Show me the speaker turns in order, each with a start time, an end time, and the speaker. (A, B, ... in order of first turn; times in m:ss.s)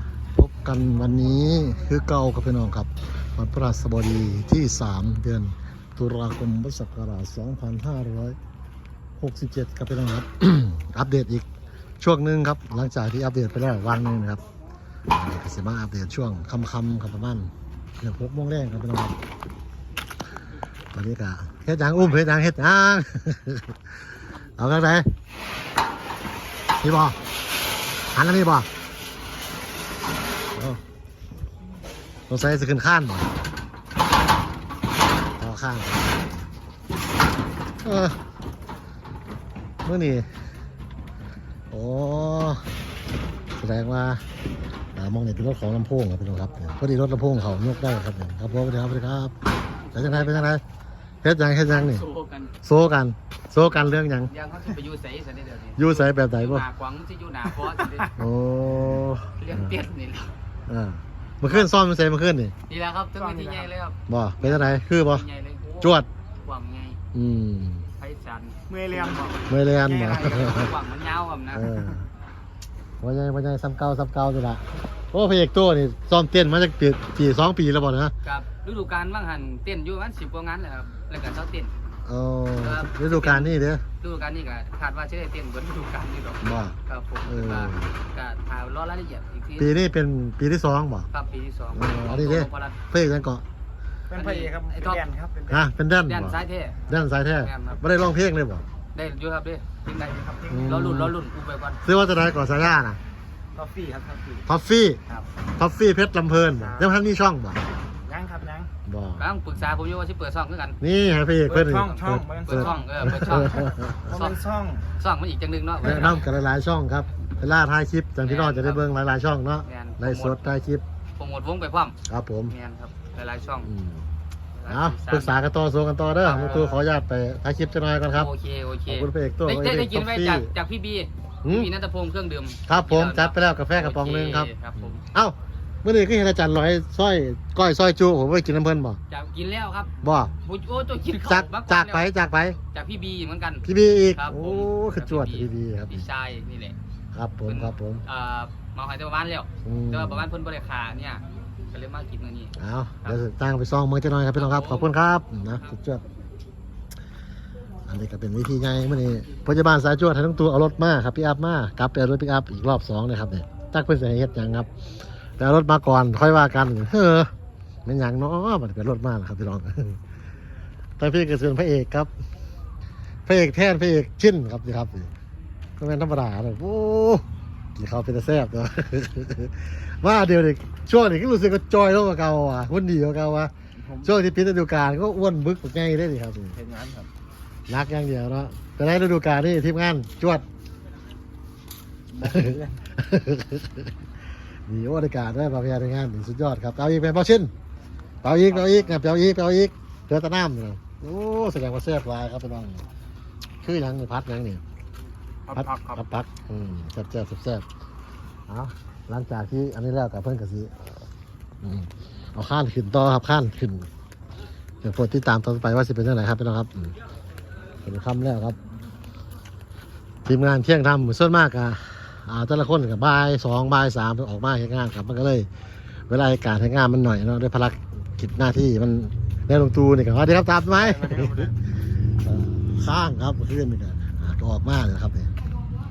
0:00.4-0:08.4 A
0:09.2-0:11.5 A
0:12.0-0:14.4 A
0:15.1-0:19.2 A
0:20.9-0:24.0 A
0:24.6-0:25.1 A
0:26.8-0:27.2 A
0:28.1-0:28.7 A
0:30.6-0:30.8 A
0:32.3-0:33.3 A
0:35.4-0:36.5 A
0:37.8-0:38.2 A
0:39.8-0:40.3 A
0:41.7-0:42.7 A
0:43.6-0:44.2 A
0:45.0-0:49.3 A
0:49.8-0:50.5 B
0:49.9-0:50.6 A
0:51.2-0:52.1 A
0:51.8-0:52.5 B
0:52.6-0:54.3 A
0:53.8-0:58.2 B
0:55.8-0:56.6 A
0:58.1-0:59.8 A
0:59.4-1:00.4 B
1:00.7-1:02.5 A
1:01.4-1:01.7 B
1:02.7-1:07.0 B
1:03.2-1:03.7 C
1:04.1-1:05.2 A
1:05.8-1:06.1 A
1:07.1-1:07.9 A
1:08.0-1:09.4 B
1:08.7-1:10.5 C
1:09.5-1:10.7 A
1:10.0-1:11.7 B
1:11.5-1:12.1 A
1:13.0-1:18.1 A
1:18.2-1:21.7 B
1:22.0-1:23.8 A
1:22.6-1:29.9 B
1:26.4-1:26.8 A
1:27.3-1:28.0 A
1:29.6-1:31.1 A
1:31.1-1:32.8 B
1:31.7-1:33.4 A
1:34.1-1:35.6 C
1:34.1-1:35.0 B
1:35.5-1:38.6 A
1:36.0-1:36.8 B
1:37.4-1:37.8 B
1:38.9-1:41.8 B
1:40.5-1:41.2 A
1:41.8-1:43.0 A
1:43.6-1:44.4 C
1:44.5-1:45.0 A
1:45.6-1:47.6 A
1:46.5-1:46.9 C
1:48.0-1:48.7 C
1:48.9-1:49.2 A
1:49.2-1:50.8 B
1:50.8-1:54.0 A
1:51.5-1:53.3 C
1:52.4-1:54.4 B
1:54.1-1:54.8 C
1:55.0-1:56.3 B
1:55.8-2:00.8 A
1:58.2-1:58.9 B
1:59.6-2:00.4 B
2:01.2-2:02.0 B
2:02.1-2:02.5 A
2:02.5-2:03.7 B
2:03.6-2:04.1 A
2:04.5-2:05.4 B
2:04.7-2:08.3 A
2:06.2-2:06.8 B
2:08.1-2:15.0 B
2:08.9-2:10.5 A
2:11.4-2:11.7 A
2:12.7-2:19.0 A
2:19.1-2:22.1 B
2:20.0-2:20.3 A
2:21.2-2:22.6 A
2:22.7-2:26.8 B
2:23.6-2:26.1 A
2:27.1-2:28.0 A
2:27.5-2:33.2 B
2:29.6-2:30.3 A
2:32.6-2:36.0 A
2:34.4-2:34.9 B
2:37.9-2:44.7 A
2:45.4-2:47.3 A
2:47.9-2:50.0 A
2:51.0-2:52.1 A
2:53.3-2:55.1 A
2:55.8-2:57.2 A
2:57.8-3:03.5 A
3:03.8-3:04.1 C
3:04.0-3:06.6 A
3:06.5-3:07.1 C
3:07.7-3:10.4 A
3:12.1-3:12.8 C
3:12.2-3:13.9 A
3:14.7-3:17.5 A
3:18.2-3:22.8 A
3:18.5-3:19.0 C
3:23.6-3:24.6 A
3:25.5-3:26.0 C
3:25.6-3:27.7 A
3:28.5-3:30.7 A
3:31.6-3:33.9 A
3:34.8-3:37.0 A
3:37.8-3:38.6 A
3:40.3-3:45.5 A
3:46.1-3:51.5 A
3:50.7-3:51.5 C
3:52.2-3:55.3 A